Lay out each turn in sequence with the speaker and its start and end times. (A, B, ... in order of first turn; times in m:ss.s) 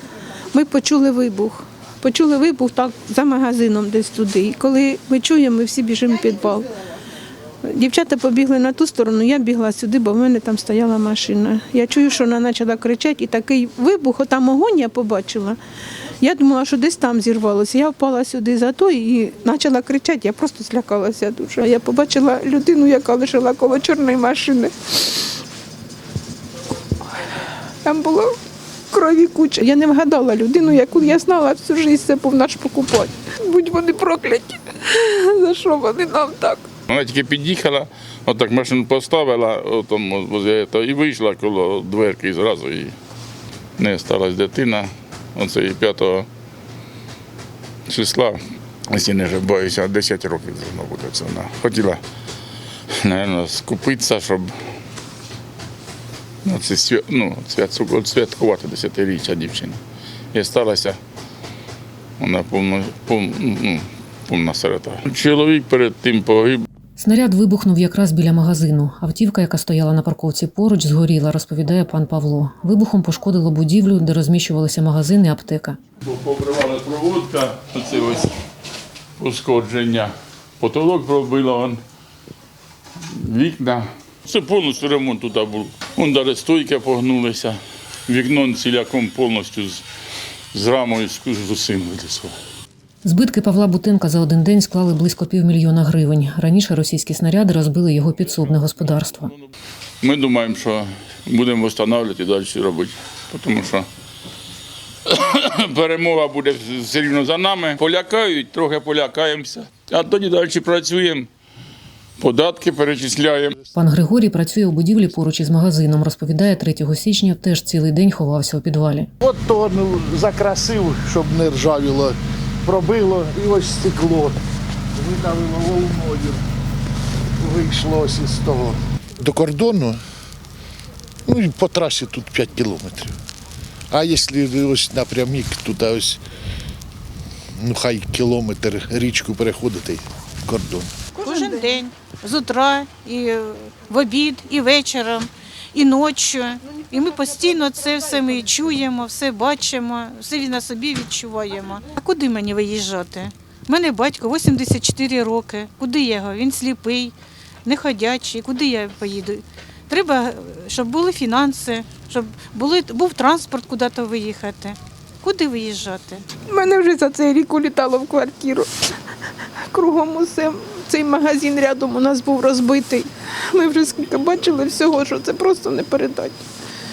0:00.5-0:06.7 A
0:07.6-0:15.6 A
0:16.2-0:25.3 A
0:27.8-0:28.3 A
0:28.9-0:36.7 A
0:36.9-0:42.9 B
0:43.8-0:46.3 B
0:47.9-0:48.4 B
0:48.9-0:52.0 B
0:53.0-0:54.6 B
0:56.4-0:59.8 B
1:00.3-1:01.0 B
1:02.2-1:06.6 B
1:07.0-1:15.8 C
1:16.0-1:18.3 B
1:19.2-1:21.8 B
1:23.1-1:29.8 B
1:30.5-1:32.3 B
1:33.0-1:39.3 C
1:38.2-1:39.5 B
1:40.0-1:43.9 B
1:45.0-1:51.3 B
1:52.2-1:53.5 B
1:53.6-1:53.9 D
1:53.7-1:59.1 C
1:59.2-2:04.4 D
2:05.0-2:06.4 D
2:07.4-2:10.0 D
2:11.2-2:13.1 D
2:13.9-2:16.2 D
2:17.6-2:20.9 D
2:21.2-2:21.6 A
2:21.2-2:46.2 E
2:46.4-2:48.7 A
2:49.7-2:56.4 A